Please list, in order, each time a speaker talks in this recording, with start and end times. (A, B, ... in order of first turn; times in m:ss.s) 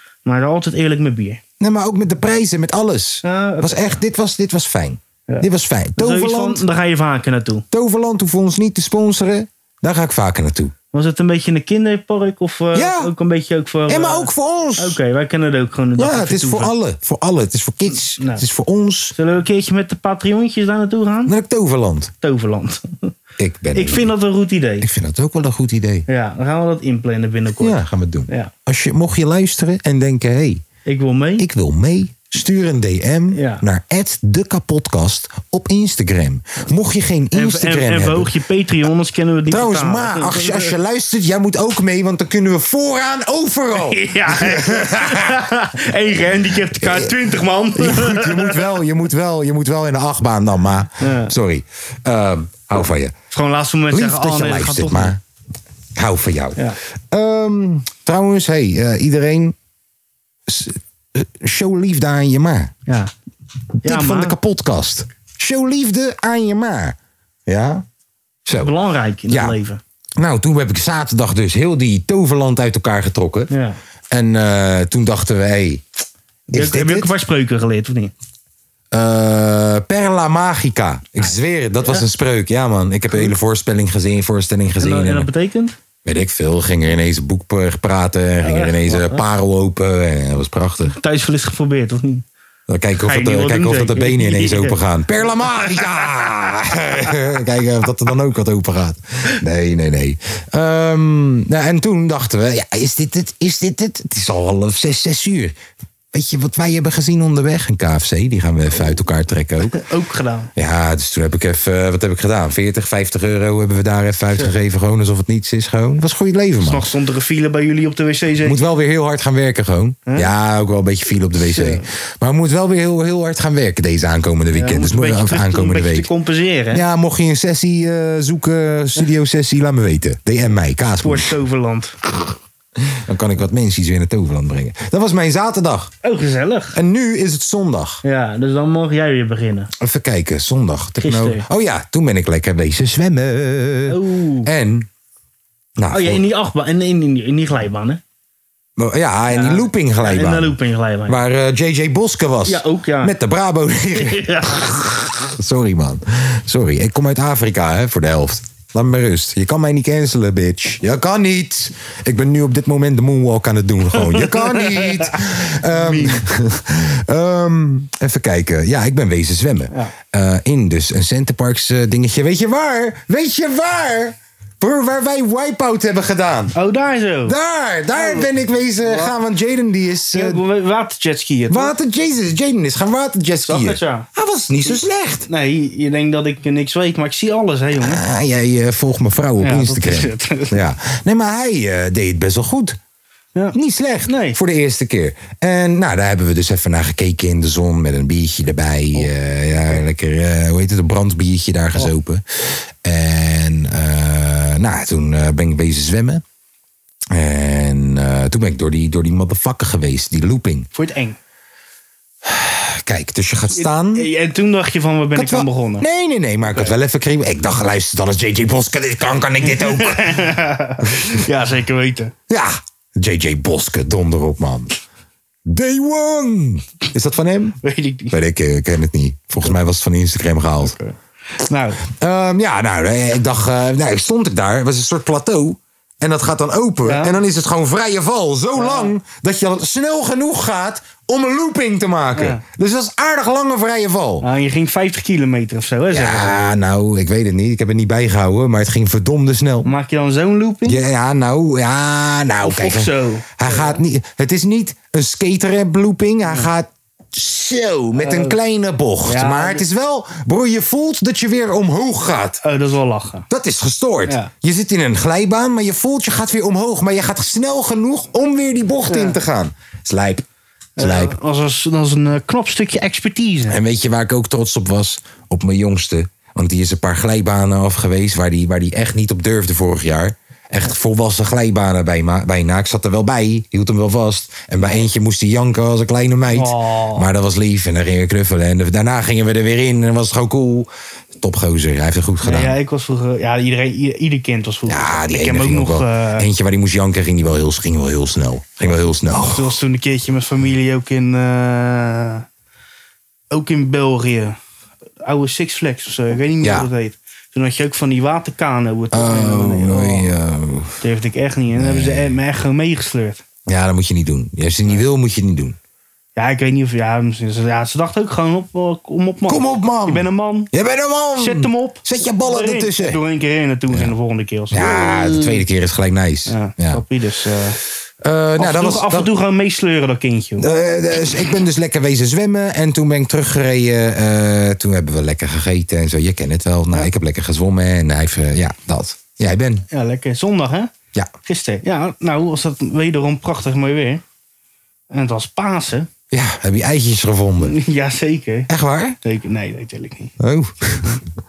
0:00.2-0:01.4 A
0:01.6-0:06.6 B
0:03.2-0:04.0 A
0:05.3-0:07.6 A
0:07.7-0:10.7 B
0:10.9-0:16.7 A
0:12.7-0:13.1 B
0:13.9-0:15.0 B
0:16.0-0:19.2 B
0:18.2-0:18.4 A
0:19.2-0:21.3 A
0:21.3-0:22.1 B
0:22.2-0:23.1 A
0:23.4-0:24.1 B
0:23.8-0:24.9 A
0:24.8-0:26.0 B
0:26.1-0:28.5 A
0:27.6-0:30.6 B
0:30.9-0:31.5 A
0:31.4-0:38.3 B
0:33.3-0:33.6 A
0:37.3-0:40.8 A
0:39.5-0:45.4 B
0:43.7-0:48.7 A
0:46.8-0:47.2 B
0:47.8-0:53.1 B
0:51.0-0:51.3 A
0:53.3-0:55.2 A
0:53.9-0:55.2 B
0:56.0-0:59.6 B
1:00.5-1:02.7 B
1:03.8-1:07.0 B
1:03.8-1:04.4 A
1:07.5-1:07.8 B
1:08.5-1:08.7 B
1:08.6-1:09.8 A
1:09.3-1:09.6 B
1:10.2-1:13.5 B
1:13.5-1:13.8 A
1:14.1-1:15.8 B
1:16.5-1:18.1 A
1:16.5-1:17.1 B
1:18.9-1:25.3 B
1:24.8-1:25.8 A
1:26.0-1:31.0 B
1:28.4-1:29.2 A
1:30.9-1:32.2 A
1:32.7-1:45.6 B
1:33.0-1:34.8 A
1:46.1-1:49.8 B
1:49.7-1:50.5 A
1:50.6-1:56.9 B
1:56.6-1:58.6 A
1:58.4-2:06.1 B
2:01.4-2:01.8 A
2:04.5-2:06.8 A
2:06.7-2:11.4 B
2:11.0-2:12.0 A
2:12.9-2:15.9 B
2:16.0-2:16.8 A
2:16.7-2:18.0 B
2:18.0-2:19.7 A
2:19.8-2:24.9 B
2:21.0-2:21.4 A
2:23.9-2:24.5 A
2:25.8-2:26.2 B
2:25.9-2:28.0 A
2:28.8-2:56.6 B
2:29.3-2:31.2 A
2:32.5-2:33.2 A
2:34.0-2:34.7 A
2:44.0-2:46.2 A
2:56.5-2:57.4 A
2:57.2-3:00.4 B
2:58.0-2:58.3 A
2:58.8-2:59.1 A
3:00.1-3:01.7 A
3:01.5-3:05.3 B
3:03.5-3:04.1 A
3:05.3-3:08.0 A
3:07.8-3:12.8 B
3:09.4-3:10.6 A
3:13.4-3:14.4 A
3:13.5-3:26.2 B
3:27.1-3:30.7 B
3:30.7-3:31.2 A
3:32.2-3:34.1 B
3:33.5-3:35.9 A
3:35.2-3:40.2 B
3:36.5-3:36.8 A
3:39.5-3:42.1 A
3:40.8-3:41.1 B
3:42.3-3:44.7 B
3:45.5-3:47.6 B
3:47.6-3:48.2 A
3:48.1-3:50.8 B
3:50.6-3:51.8 A
3:51.8-4:04.3 B
3:56.8-3:57.2 A
3:58.6-3:58.9 A
4:02.2-4:02.4 A
4:04.2-4:06.4 A
4:05.9-4:09.7 B
4:09.6-4:10.8 A
4:10.6-4:22.4 B
4:12.4-4:13.8 A
4:18.0-4:18.4 A
4:19.0-4:19.7 A
4:22.4-4:23.3 A
4:23.3-4:30.3 B
4:28.9-4:29.2 A
4:30.8-4:33.6 A
4:30.8-4:31.2 B
4:33.5-4:52.6 B
4:46.3-4:47.1 A
4:52.2-4:56.3 A
4:54.7-4:59.6 B
4:59.1-5:02.3 A
5:03.3-5:04.4 A
5:05.0-5:10.1 A
5:06.4-5:06.7 B
5:08.9-5:10.8 B
5:10.8-5:13.2 A
5:11.6-5:12.2 B
5:13.5-5:15.6 B
5:16.2-5:20.5 A
5:19.3-5:23.0 B
5:21.2-5:25.4 A
5:24.5-5:26.8 B
5:26.3-5:27.6 A
5:28.0-5:29.1 B
5:28.4-5:30.6 A
5:30.4-5:39.6 B
5:39.7-5:40.7 A
5:41.2-5:44.0 A
5:44.9-5:45.9 A
5:46.1-5:47.6 B
5:47.4-5:48.5 A
5:48.5-5:49.0 B
5:49.0-5:50.1 A
5:50.2-5:51.0 B